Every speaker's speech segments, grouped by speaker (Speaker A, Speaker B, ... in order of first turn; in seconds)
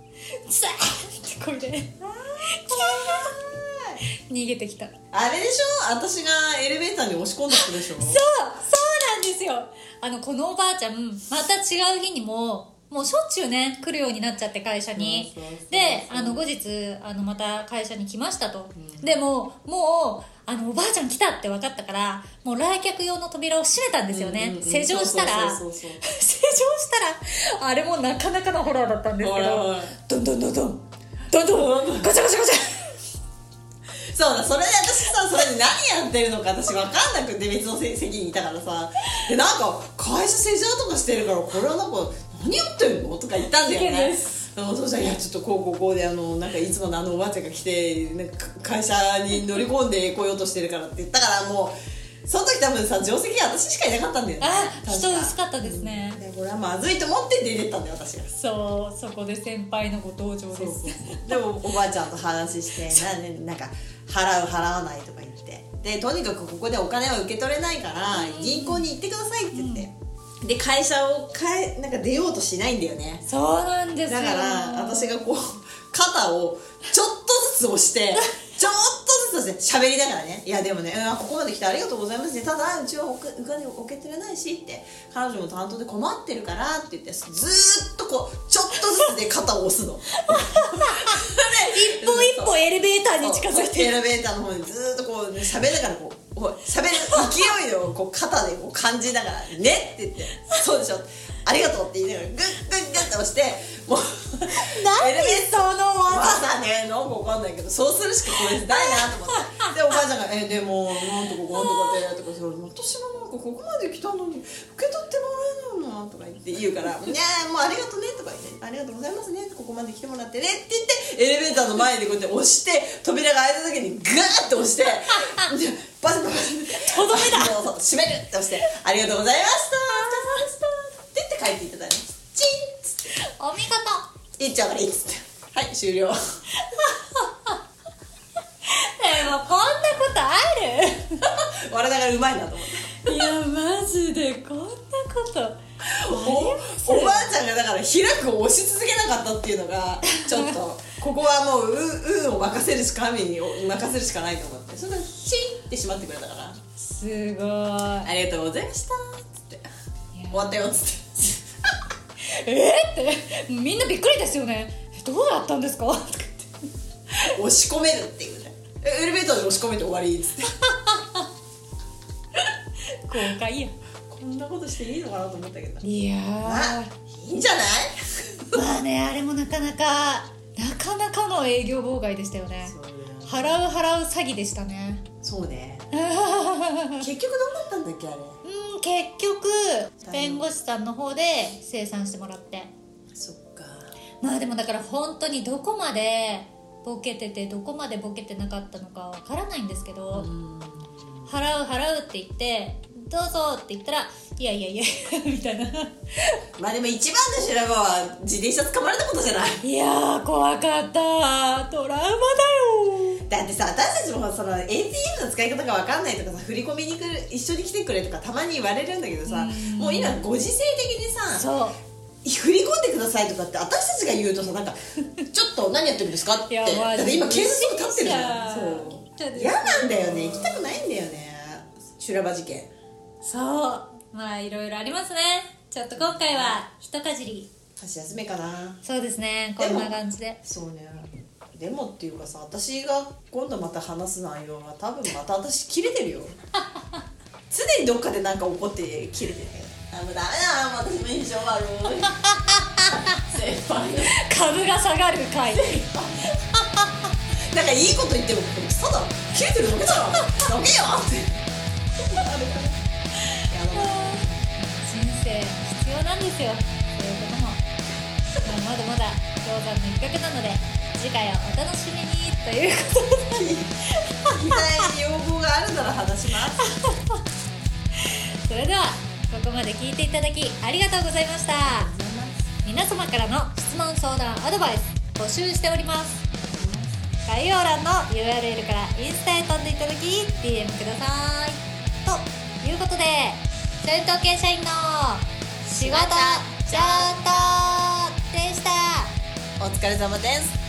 Speaker A: 0.3-1.9, 2.5-3.4, 4.2-4.9, 7.5-32.9, 43.5-44.4, 54.4-56.2, 58.3-61.5, 68.1-68.9, 69.5-69.9, 73.3-75.1, 90.2-94.0, 97.0-97.4, 104.5-106.4, 108.3-109.7, 111.5-112.0, 125.2-125.5, 126.7-127.6, 129.9-130.4, 133.2-134.1, 136.6-137.6, 138.7-141.2, 143.0-147.3, 150.2-150.6, 156.8-158.1, 160.1-160.7, 162.3-166.5, 173.1-173.7, 175.8-176.9, 178.5-185.1, 185.9-187.1, 188.4-192.7, 194.2-200.3, 201.3-206.4, 209.6-213.2, 219.3-220.2, 221.4-221.8, 226.5-230.8, 233.2-237.5, 238.8-240.4, 252.2-253.2, 254.1-255.9, 263.7-267.6, 268.4-274.9, 276.6-277.2, 278.0-281.9, 282.6-286.2, 287.3-299.1
Speaker B: 2.0-4.0, 5.1-8.2, 14.9-16.5, 18.8-19.1, 24.1-26.0, 29.2-29.9, 31.4-32.1, 34.1-58.3, 60.5-73.3, 74.1-92.6, 93.2-133.0, 134.4-136.2, 141.2-143.3, 145.9-156.6, 158.0-159.7, 160.3-161.4, 167.2-170.6, 174.1-175.9, 176.4-178.6, 182.6-183.7, 185.2-185.9, 187.0-188.4, 190.0-190.5, 193.1-193.9, 200.1-201.3, 206.6-209.6, 213.3-221.5, 222.2-224.8, 225.3-232.7, 236.0-236.6, 237.8-238.8, 239.6-246.4, 247.5-252.2, 252.9-254.2, 255.5-256.4, 257.5-261.5, 262.0-262.8, 263.5-264.6, 273.3-276.7, 281.6-282.5, 286.5-287.1, 295.8-297.8, 299.6-300.6